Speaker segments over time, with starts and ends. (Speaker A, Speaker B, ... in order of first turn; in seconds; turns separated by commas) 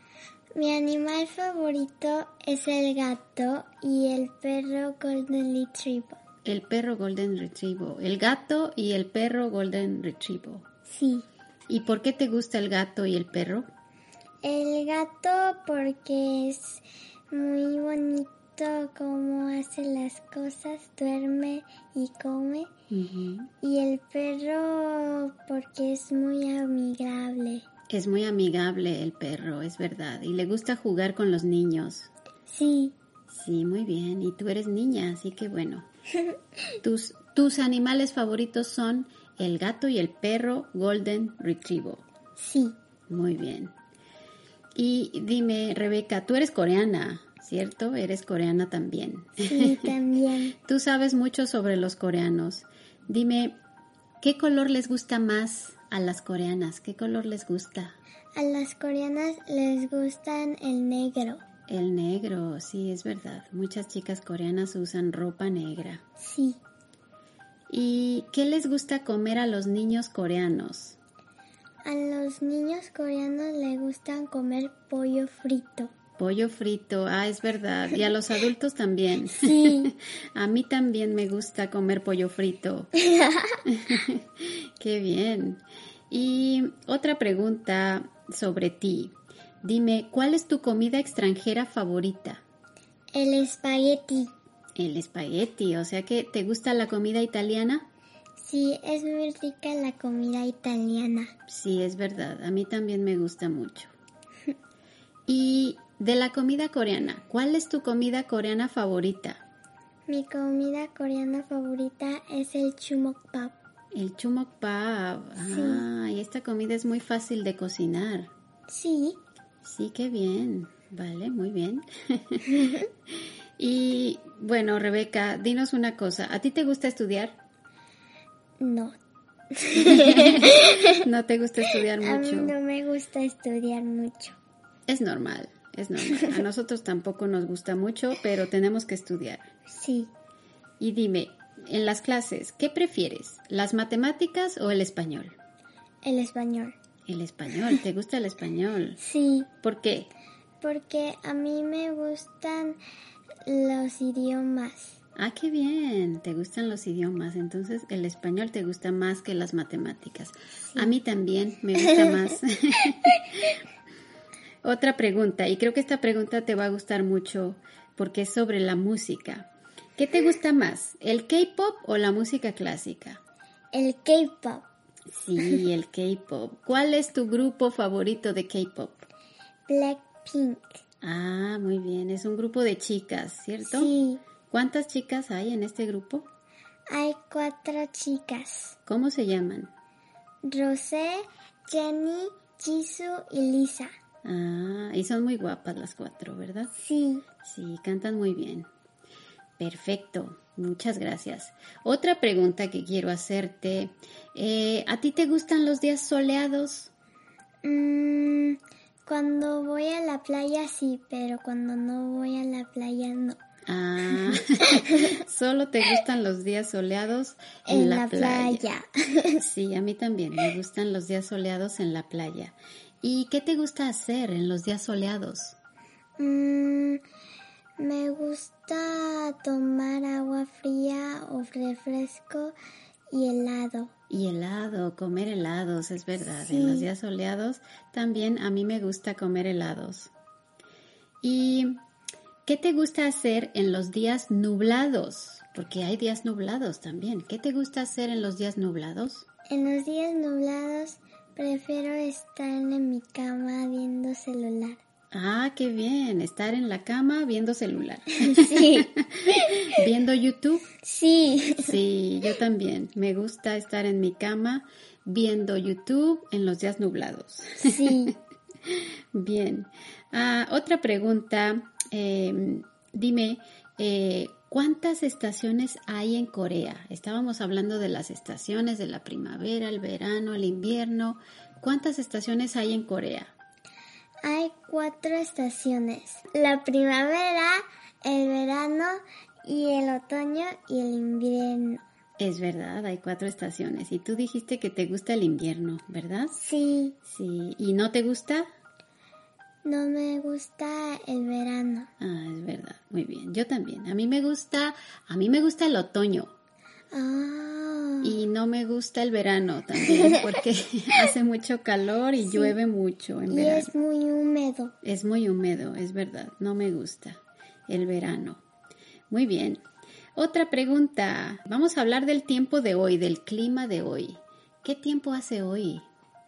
Speaker A: 0.5-6.2, Speaker B: 6.4-10.6, Speaker A: 10.9-11.3, Speaker B: 11.7-13.7, Speaker A: 14.4-22.7, Speaker B: 22.9-23.5, Speaker A: 23.6-27.6, Speaker B: 27.9-32.1, Speaker A: 32.5-32.9, Speaker B: 33.3-35.9, Speaker B: 36.8-42.0, Speaker A: 42.4-42.8, Speaker B: 43.1-43.7, Speaker B: 44.8-49.9, Speaker A: 49.4-50.5, Speaker B: 50.6-53.6, Speaker B: 54.2-58.0, Speaker A: 58.3-61.4, Speaker B: 61.7-66.0, Speaker A: 66.2-66.6, Speaker B: 67.7-71.0, Speaker A: 71.8-75.9, Speaker B: 76.2-82.9, Speaker A: 79.3-79.9, Speaker A: 83.0-83.6, Speaker B: 83.7-92.4, Speaker A: 93.1-94.3, Speaker B: 94.8-97.9, Speaker A: 98.4-101.3, Speaker B: 101.5-103.9, Speaker B: 105.3-109.4, Speaker A: 110.1-113.6, Speaker B: 113.9-118.3, Speaker A: 115.4-115.8, Speaker A: 118.7-119.2, Speaker B: 119.6-122.6, Speaker B: 123.6-127.4, Speaker A: 128.6-129.0, Speaker A: 129.5-131.0, Speaker B: 129.8-132.5, Speaker A: 131.9-134.4, Speaker B: 134.9-139.5, Speaker A: 139.7-140.1, Speaker B: 140.8-145.3, Speaker A: 146.0-146.7, Speaker B: 147.1-149.0, Speaker A: 149.0-149.5, Speaker B: 149.6-150.1, Speaker A: 150.6-152.8, Speaker A: 153.4-155.0, Speaker B: 155.2-163.5, Speaker A: 161.8-162.1, Speaker B: 164.6-173.2, Speaker A: 173.7-174.7, Speaker B: 175.1-179.1, Speaker A: 179.7-180.8, Speaker B: 181.0-183.9, Speaker A: 183.7-184.2, Speaker B: 184.5-186.3, Speaker A: 186.9-188.8, Speaker B: 188.8-189.7, Speaker A: 190.4-193.9, Speaker B: 194.2-196.7, Speaker A: 196.8-197.2, Speaker B: 197.4-198.7, Speaker B: 199.6-206.9, Speaker A: 207.6-213.4, Speaker B: 213.6-218.7, Speaker A: 214.6-215.1, Speaker A: 217.7-219.4, Speaker B: 219.4-225.6, Speaker A: 226.2-227.0, Speaker A: 227.8-232.6, Speaker A: 233.1-233.9, Speaker B: 234.1-240.1, Speaker A: 236.3-236.9, Speaker B: 241.2-241.8, Speaker B: 242.4-249.2, Speaker A: 249.5-254.8, Speaker B: 255.1-260.7, Speaker A: 258.2-259.8, Speaker A: 260.8-261.8, Speaker B: 261.6-268.1, Speaker A: 267.6-268.1, Speaker B: 268.7-283.3, Speaker A: 284.2-291.8, Speaker B: 292.2-296.4, Speaker A: 296.4-297.0, Speaker B: 297.1-298.4, Speaker A: 299.6-301.9, Speaker B: 302.0-306.3, Speaker A: 306.9-308.1, Speaker B: 308.0-313.7, Speaker A: 309.9-310.4, Speaker A: 312.2-312.5, Speaker A: 313.3-314.7, Speaker B: 314.8-318.4, Speaker B: 319.1-319.6, Speaker B: 320.1-325.9